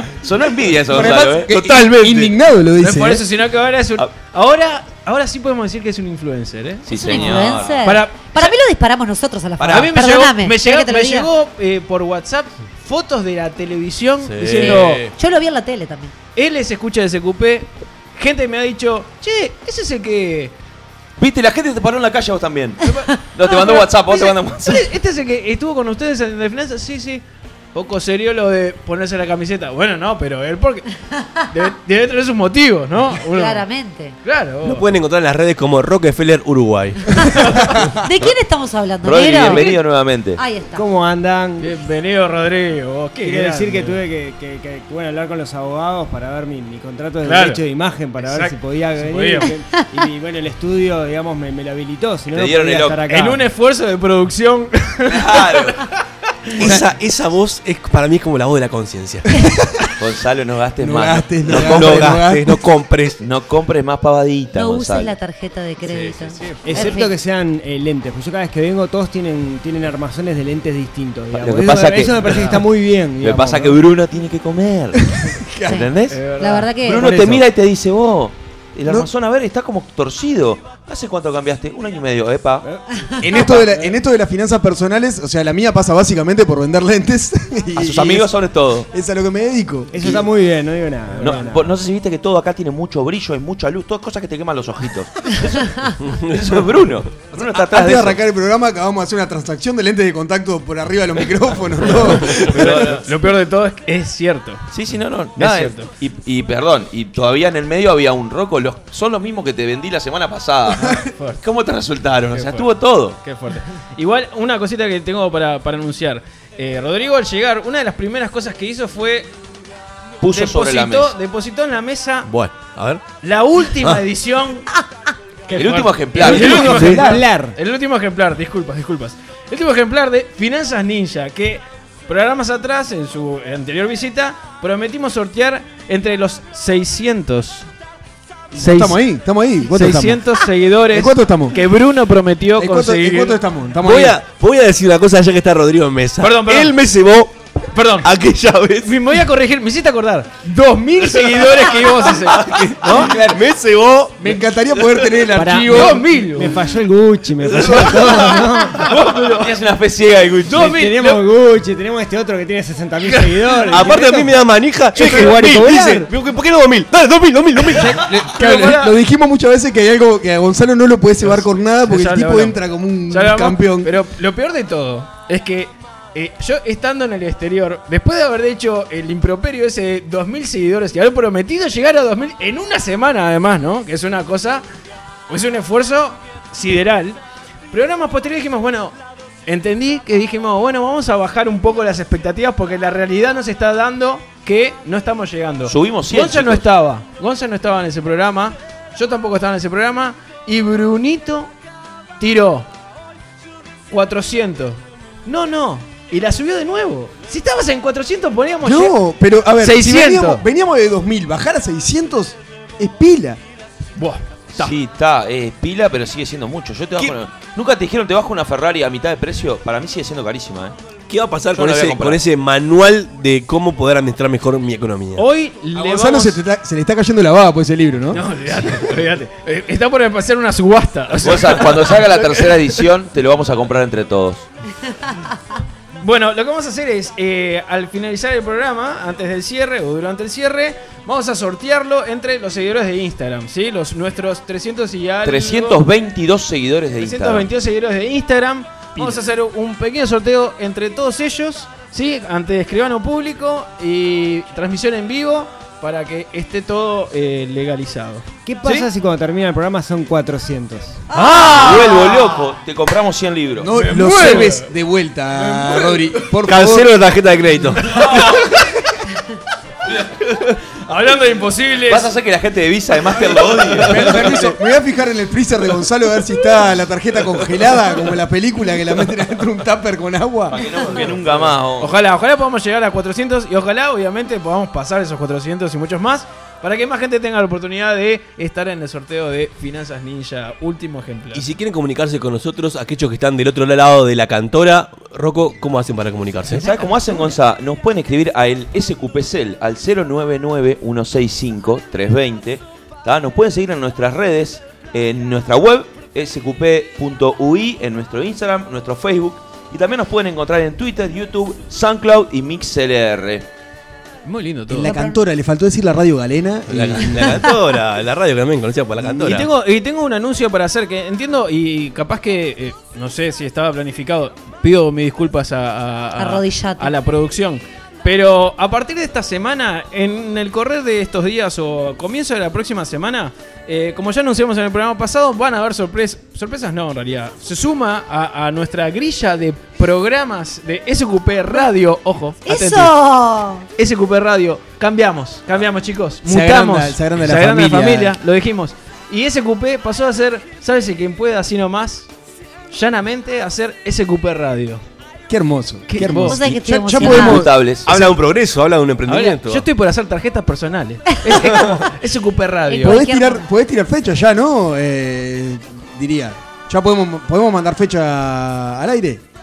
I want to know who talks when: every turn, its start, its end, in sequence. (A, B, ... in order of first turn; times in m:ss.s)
0:00.2-0:01.6 A
0:00.9-0:03.2 B
0:01.6-0:02.3 C
0:02.8-0:08.5 D
0:06.8-0:07.8 A
0:06.9-0:11.3 E
0:09.6-0:15.0 D
0:14.2-0:15.1 C
0:14.5-0:16.1 E
0:16.4-0:20.5 D
0:21.2-0:24.9 A
0:22.8-0:30.8 D
0:31.5-0:33.6 D
0:33.3-0:34.2 E
0:34.2-0:34.9 D
0:34.6-0:37.4 C
0:37.2-0:39.8 E
0:39.0-0:40.4 A
0:40.4-0:40.8 E
0:40.7-0:41.7 F
0:41.6-0:44.0 D
0:43.2-0:53.5 F
0:47.2-0:47.6 D
0:48.2-0:49.6 D
0:52.3-0:53.0 A
0:53.1-0:55.8 D
0:55.1-0:55.8 A
0:56.6-0:59.4 C
1:00.0-1:02.2 A
1:00.8-1:02.6 B
1:01.5-1:03.2 C
1:03.2-1:05.1 A
1:04.5-1:07.1 E
1:05.9-1:06.3 C
1:06.6-1:13.8 F
1:11.3-1:12.6 A
1:13.2-1:15.1 A
1:15.2-1:15.8 B
1:15.6-1:16.2 A
1:16.1-1:16.7 D
1:16.4-1:17.0 E
1:16.8-1:22.6 A
1:16.9-1:17.4 B
1:23.2-1:28.3 B
1:27.8-1:28.9 A
1:28.9-1:30.2 B
1:29.9-1:31.7 F
1:31.2-1:38.2 A
1:36.0-1:36.6 C
1:37.4-1:42.8 B
1:42.3-1:43.1 A
1:42.3-1:44.6 D
1:44.7-1:53.2 A
1:45.4-1:45.9 D
1:51.1-1:51.4 D
1:52.3-1:52.7 D
1:53.2-1:59.3 D
2:00.2-2:01.2 A
2:00.2-2:02.3 D
2:02.2-2:03.0 C
2:03.2-2:04.7 D
2:05.5-2:17.7 D
2:05.5-2:06.7 A
2:06.2-2:07.6 F
2:06.2-2:07.2 B
2:18.5-2:20.3 B
2:18.5-2:19.0 D
2:19.7-2:23.4 D
2:20.9-2:21.6 B
2:22.6-2:24.2 B
2:23.8-2:27.3 C
2:26.2-2:26.8 D
2:27.7-2:28.1 D
2:28.0-2:29.0 C
2:28.8-2:33.1 D
2:32.2-2:34.4 C
2:32.8-2:33.4 B
2:34.2-2:36.0 B
2:35.3-2:38.9 F
2:35.6-2:36.6 D
2:37.7-2:38.2 C
2:38.7-2:40.8 A
2:38.9-2:39.5 D
2:40.5-2:41.2 D
2:40.5-2:44.5 F
2:43.1-2:43.6 D
2:43.7-2:48.0 C
2:44.9-2:46.1 B
2:47.6-2:49.0 D
2:47.9-2:53.9 B
2:51.2-2:52.6 D
2:53.1-3:04.6 D
3:05.3-3:07.2 D
3:07.7-3:21.5 D
3:15.6-3:16.7 A
3:22.2-3:22.7 D
3:23.9-3:29.0 D
3:28.6-3:33.4 B
3:29.6-3:30.4 D
3:34.0-3:34.8 D
3:34.5-3:40.8 A
3:41.1-3:45.2 C
3:41.5-3:42.2 A
3:45.2-3:46.4 D
3:45.7-3:48.2 B
3:48.1-3:52.8 D
3:51.2-3:54.5 A
3:56.0-4:05.8 D
4:05.2-4:07.5 A
4:06.9-4:18.9 D
4:18.4-4:21.0 F
4:21.1-4:22.2 D
4:21.5-4:23.7 A
4:23.6-4:27.0 B
4:23.7-4:24.7 D
4:25.4-4:26.3 D
4:26.4-4:28.0 C
4:27.8-4:28.6 D
4:30.7-4:32.1 D
4:31.9-4:34.5 A
4:33.2-4:34.1 D
4:33.8-4:40.6 B
4:40.5-4:42.0 A
4:40.9-4:51.5 D
4:51.3-4:56.6 C
4:56.4-4:57.0 D
4:56.5-5:13.5 A
5:14.2-5:15.0 D
5:14.7-5:17.5 B
5:14.8-5:15.2 E
5:16.7-5:19.5 C
5:19.0-5:42.9 D
5:26.2-5:26.9 E
5:42.4-5:43.7 E
5:43.8-5:52.1 D
5:46.2-5:48.2 B
5:52.7-5:54.8 D
5:55.3-5:58.1 B
5:55.9-5:56.4 D
5:56.2-5:57.4 E
5:57.0-5:57.9 A
5:57.8-5:59.6 C
5:59.0-6:03.0 D
6:02.7-6:03.4 E
6:02.8-6:09.2 B